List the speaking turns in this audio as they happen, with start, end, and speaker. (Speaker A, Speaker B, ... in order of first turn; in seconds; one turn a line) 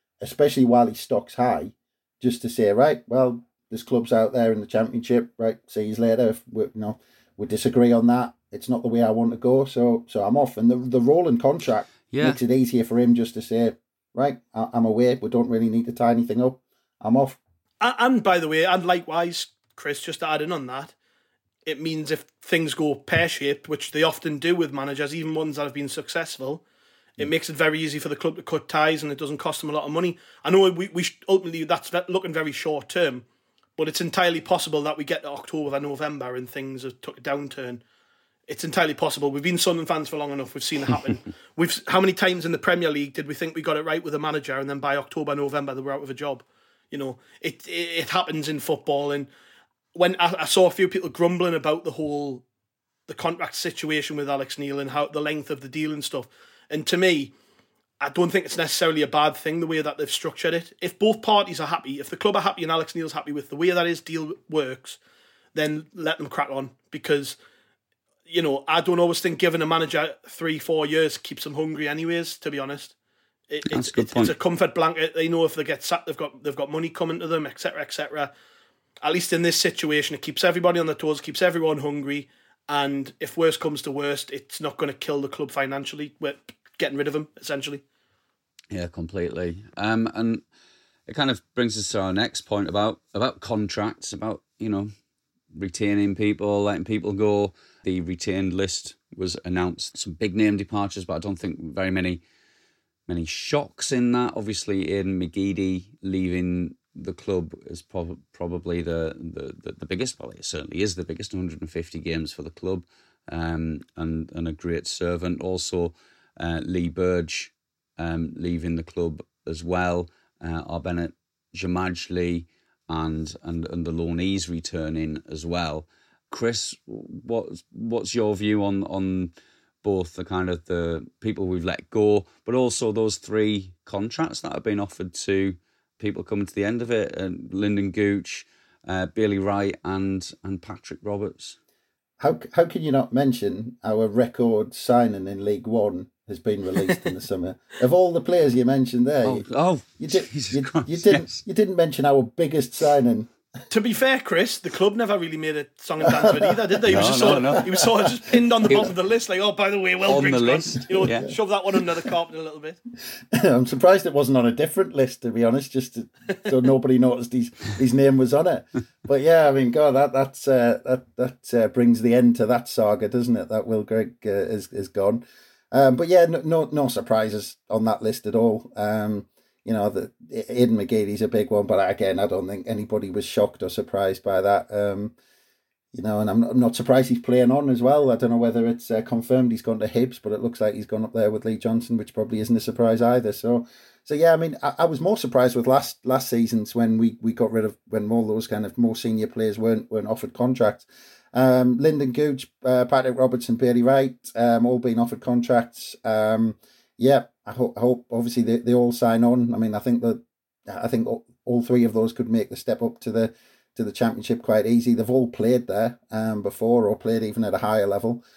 Speaker A: 0.2-17.4
Speaker B: 12.1-12.4
Speaker C: 17.8-20.9
Speaker C: 21.7-26.6
Speaker C: 27.2-33.2
Speaker C: 33.8-37.8
Speaker C: 38.5-49.3
Speaker C: 49.9-52.4
Speaker C: 53.1-57.3
Speaker C: 58.0-65.0
Speaker C: 65.5-67.4
Speaker C: 68.3-73.0
Speaker C: 73.5-78.3
Speaker B: 73.7-74.3
Speaker C: 79.0-87.8
Speaker B: 88.7-90.4
Speaker B: 91.1-94.9
Speaker B: 95.5-102.2
Speaker B: 103.1-129.3
Speaker B: 129.8-141.6
Speaker A: 142.2-149.5
Speaker B: 149.2-151.4
Speaker A: 150.0-153.3
Speaker C: 153.7-162.8
Speaker A: 156.0-157.7
Speaker B: 156.9-157.7
Speaker B: 160.1-161.3
Speaker A: 163.3-185.1
Speaker A: 185.9-218.2